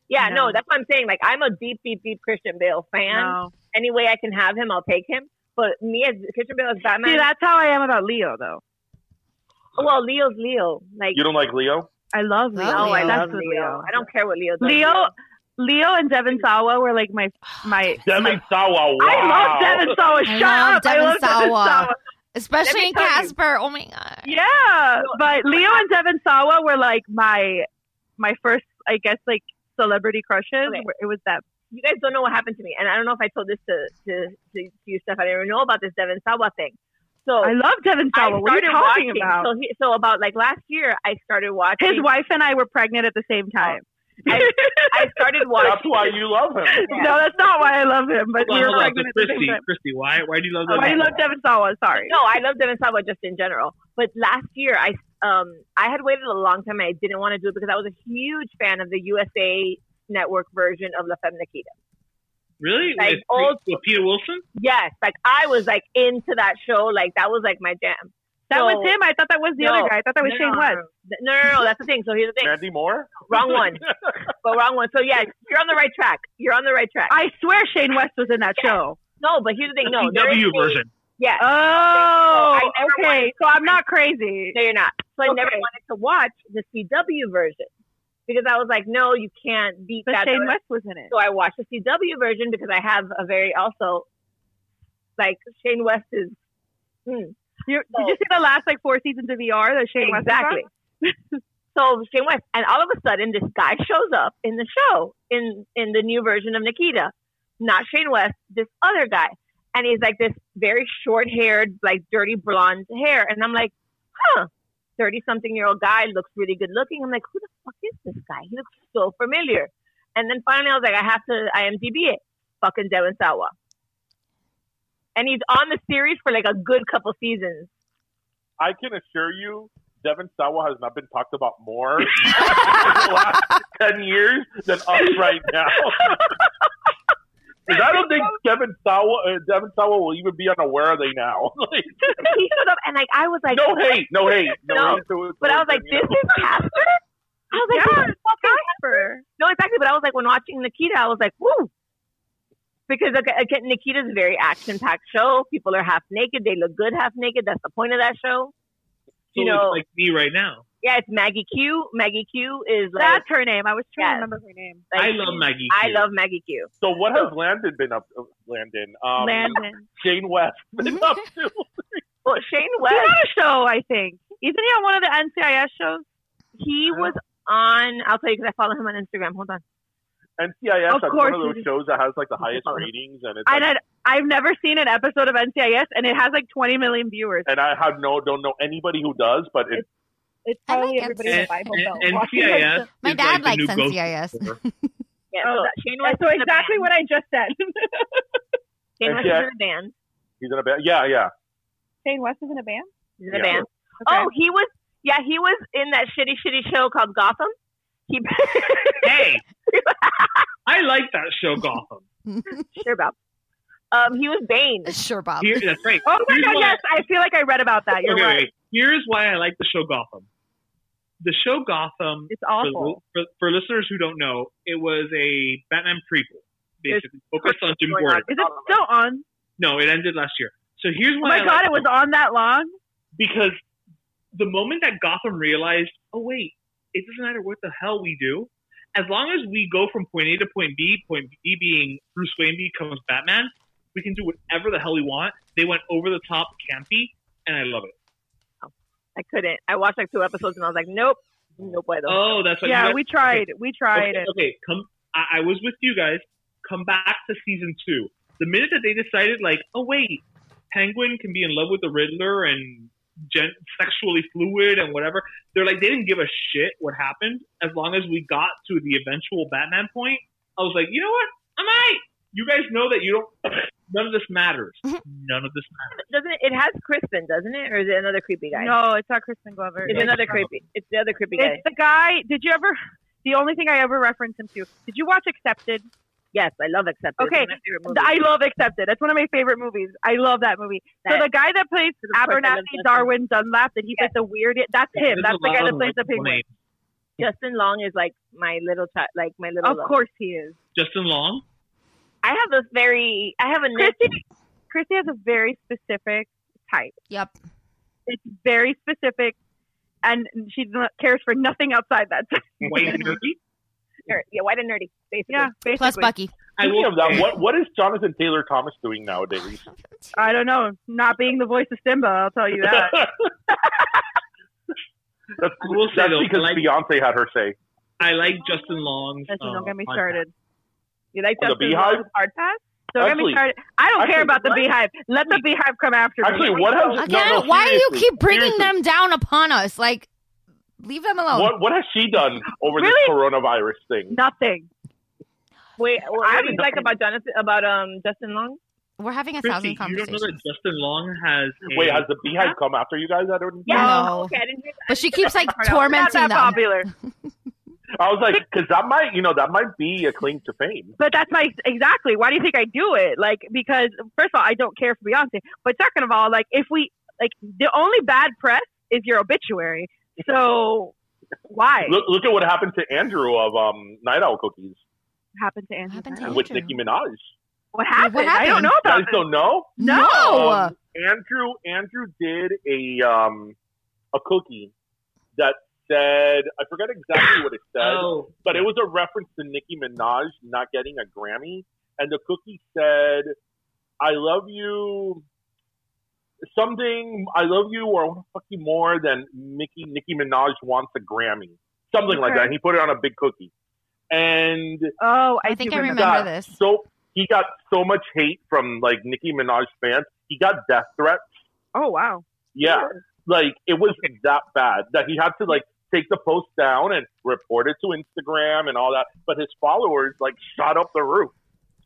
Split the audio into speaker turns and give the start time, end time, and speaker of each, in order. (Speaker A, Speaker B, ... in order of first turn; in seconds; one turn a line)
Speaker A: 0.1-7.3
Speaker B: 0.2-0.6
Speaker B: 3.1-3.5
Speaker B: 7.0-8.6
Speaker A: 9.8-11.2
Speaker C: 11.1-11.9
Speaker B: 12.1-14.1
Speaker D: 12.6-13.3
Speaker A: 12.7-15.1
Speaker B: 14.6-18.4
Speaker D: 17.6-18.0
Speaker C: 18.0-20.2
Speaker B: 19.0-22.0
Speaker D: 20.2-24.4
Speaker A: 22.6-23.4
Speaker B: 24.2-27.7
Speaker A: 25.0-25.9
Speaker B: 28.2-31.4
Speaker A: 31.7-37.6
Speaker B: 37.4-39.5
Speaker A: 38.1-42.1
Speaker B: 41.8-45.7
Speaker A: 43.6-46.2
Speaker C: 45.6-46.9
Speaker B: 46.7-49.6
Speaker A: 46.9-47.2
Speaker E: 48.4-51.3
Speaker A: 50.7-51.2
Speaker B: 50.7-52.2
Speaker A: 52.0-61.7
Speaker E: 62.6-64.5
Speaker A: 63.0-63.8
Speaker A: 64.6-69.0
Speaker B: 68.5-70.8
Speaker A: 69.6-72.6
Speaker C: 72.4-74.1
Speaker A: 73.3-73.8
Speaker A: 74.4-77.2
Speaker B: 77.1-79.0
Speaker A: 78.6-83.8
Speaker E: 79.8-80.9
Speaker B: 81.4-84.6
Speaker A: 84.5-87.7
Speaker B: 85.2-85.7
Speaker A: 88.3-90.6
Speaker B: 90.1-91.1
Speaker A: 91.1-94.0
Speaker A: 95.2-96.4
Speaker A: 97.1-97.3
Speaker B: 97.7-101.2
Speaker A: 100.0-100.7
Speaker A: 101.7-123.5
Speaker A: 125.2-127.7
Speaker C: 128.6-136.2
Speaker C: 137.7-142.3
Speaker B: 137.7-138.4
Speaker A: 142.2-147.0
Speaker C: 143.5-146.6
Speaker A: 147.5-151.7
Speaker B: 147.6-149.2
Speaker A: 152.9-158.5
Speaker A: 159.3-159.8
Speaker E: 159.3-160.7
Speaker A: 160.8-163.2
Speaker B: 163.0-164.9
Speaker A: 164.0-164.3
Speaker A: 164.9-167.3
Speaker E: 164.9-166.1
Speaker C: 166.8-172.0
Speaker B: 169.2-169.9
Speaker A: 172.2-173.2
Speaker B: 172.9-176.1
Speaker A: 176.6-179.6
Speaker C: 180.4-183.7
Speaker B: 180.9-181.7
Speaker A: 182.4-182.9
Speaker B: 183.5-187.5
Speaker C: 187.5-189.8
Speaker B: 190.4-192.9
Speaker D: 190.7-191.8
Speaker E: 191.2-194.6
Speaker D: 193.0-194.9
Speaker A: 195.3-196.9
Speaker B: 195.4-198.4
Speaker A: 199.0-199.9
Speaker C: 199.0-199.5
Speaker C: 200.4-201.3
Speaker B: 202.0-202.9
Speaker A: 203.2-207.5
Speaker C: 203.3-203.6
Speaker B: 204.0-204.3
Speaker A: 208.1-210.5
Speaker E: 209.0-209.4
Speaker E: 210.7-212.1
Speaker A: 212.8-213.2
Speaker A: 213.9-214.9
Speaker D: 214.9-215.7
Speaker E: 215.4-216.8
Speaker B: 216.1-218.5
Speaker E: 218.0-220.3
Speaker E: 221.2-228.3
Speaker B: 222.3-223.0
Speaker A: 226.9-228.8
Speaker B: 228.3-229.2
Speaker E: 229.6-231.9
Speaker B: 231.2-232.7
Speaker E: 233.2-233.6
Speaker E: 234.3-247.9
Speaker A: 248.6-252.4
Speaker E: 252.1-276.0
Speaker B: 252.6-254.3
Speaker A: 276.0-278.8
Speaker B: 278.5-280.5
Speaker A: 279.9-281.6
Speaker E: 279.9-280.5
Speaker B: 281.4-285.9
Speaker A: 286.3-288.2
Speaker B: 287.2-296.4
Speaker A: 292.1-293.1
Speaker E: 294.9-296.5
Speaker A: 297.2-299.9
Speaker B: 299.6-300.6
Speaker E: 300.8-301.4
Speaker A: 302.2-304.2
Speaker B: 303.7-304.2
Speaker B: 304.7-307.0
Speaker B: 308.1-309.4
Speaker B: 310.0-313.2
Speaker E: 312.6-313.4
Speaker A: 314.1-315.6
Speaker B: 315.3-316.1
Speaker D: 315.8-316.3
Speaker E: 316.6-317.4
Speaker C: 316.6-319.6
Speaker D: 319.6-320.3
Speaker B: 320.1-323.0
Speaker C: 322.6-323.3
Speaker C: 325.4-327.6
Speaker E: 325.6-326.7
Speaker E: 328.0-330.2
Speaker B: 329.3-330.3
Speaker A: 331.1-332.4
Speaker C: 331.4-332.1
Speaker B: 331.7-337.4
Speaker C: 333.0-333.5
Speaker C: 334.0-334.7
Speaker C: 336.2-338.7
Speaker D: 337.0-340.1
Speaker D: 340.8-341.6
Speaker C: 341.3-344.2
Speaker B: 342.7-343.2
Speaker B: 344.1-344.7
Speaker A: 345.8-348.6
Speaker B: 346.2-346.9
Speaker D: 349.0-350.4
Speaker E: 349.4-352.6
Speaker C: 351.7-353.8
Speaker A: 353.7-356.6
Speaker D: 353.7-354.3
Speaker B: 353.7-354.1
Speaker D: 354.9-356.6
Speaker B: 355.8-356.9
Speaker C: 358.0-361.0
Speaker B: 361.0-370.9
Speaker B: 371.5-372.0
Speaker C: 371.9-374.8
Speaker B: 375.4-376.5
Speaker D: 375.9-376.8
Speaker C: 376.3-377.3
Speaker B: 377.7-379.2
Speaker D: 378.0-378.7
Speaker C: 378.6-383.6
Speaker B: 379.8-380.6
Speaker D: 379.8-380.7
Speaker C: 384.1-384.7
Speaker C: 385.4-393.4
Speaker E: 387.8-388.7
Speaker C: 394.0-395.2
Speaker C: 396.5-403.5
Speaker B: 402.1-402.5
Speaker C: 404.1-404.9
Speaker B: 405.0-406.2
Speaker D: 405.4-406.6
Speaker C: 405.9-411.3
Speaker B: 411.8-412.2
Speaker C: 412.6-421.3